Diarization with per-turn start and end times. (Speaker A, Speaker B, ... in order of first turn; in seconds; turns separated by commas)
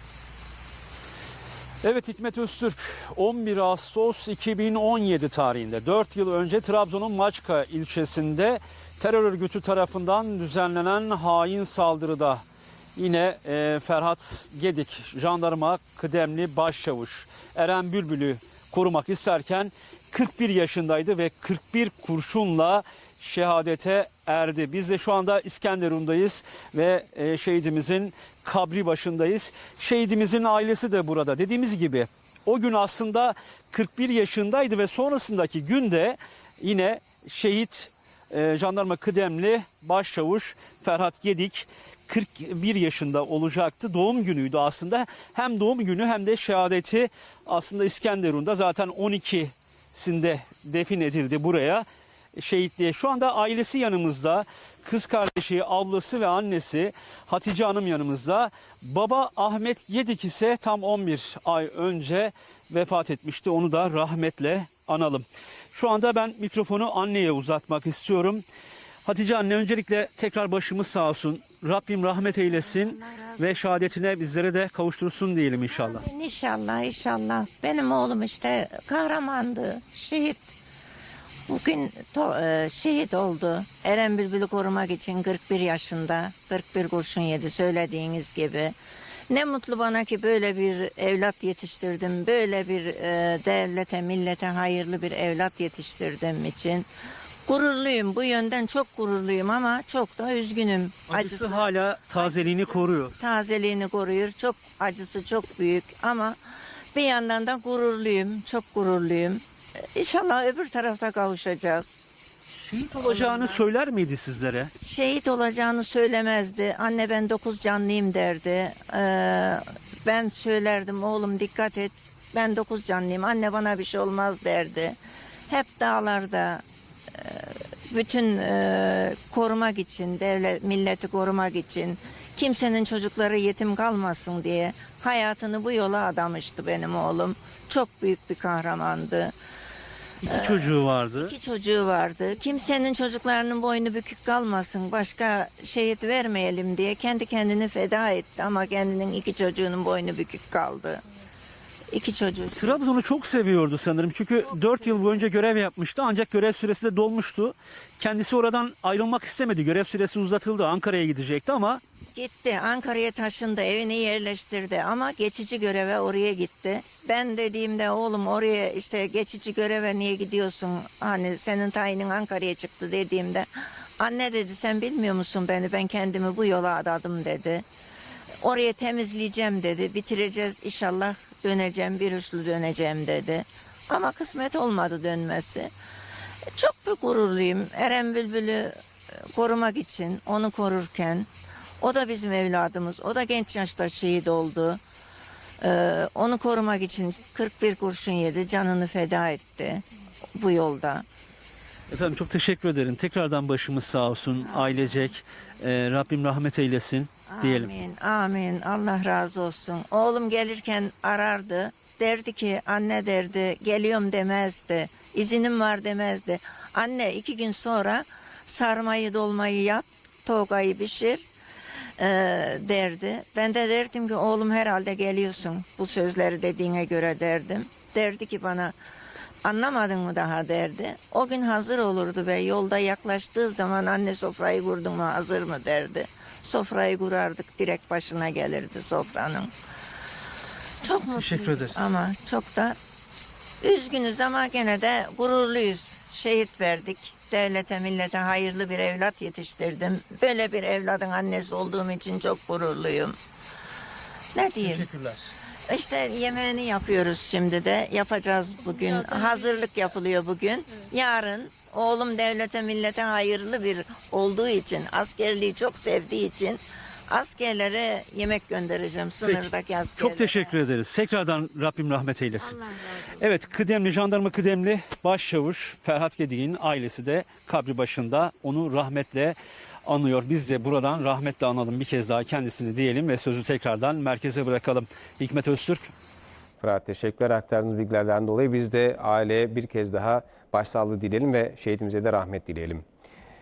Speaker A: 1.8-12.4, Speaker A: 13.0-68.4, Speaker A: 69.0-76.0, Speaker B: 75.8-80.5, Speaker B: 81.5-88.8, Speaker B: 89.3-96.9, Speaker B: 97.5-106.4, Speaker A: 101.1-103.1, Speaker B: 106.9-112.0, Speaker A: 112.6-114.7, Speaker B: 113.0-113.6, Speaker B: 114.8-125.0, Speaker B: 125.5-126.6, Speaker B: 127.2-139.3, Speaker A: 140.2-141.3, Speaker B: 140.3-151.0, Speaker B: 151.9-152.8, Speaker A: 152.6-161.8, Speaker B: 162.1-177.7, Speaker B: 178.4-185.7, Speaker B: 186.5-188.8, Speaker B: 189.3-191.3, Speaker B: 191.8-194.8, Speaker B: 195.6-199.8, Speaker B: 200.3-201.0, Speaker A: 201.9-207.7, Speaker B: 207.3-221.2, Speaker B: 222.0-228.7, Speaker B: 229.4-239.5, Speaker B: 240.8-242.8, Speaker A: 241.2-241.8, Speaker B: 243.6-253.2, Speaker B: 254.3-254.9, Speaker A: 254.6-255.2, Speaker B: 255.7-270.5, Speaker A: 270.0-285.9, Speaker C: 286.6-292.8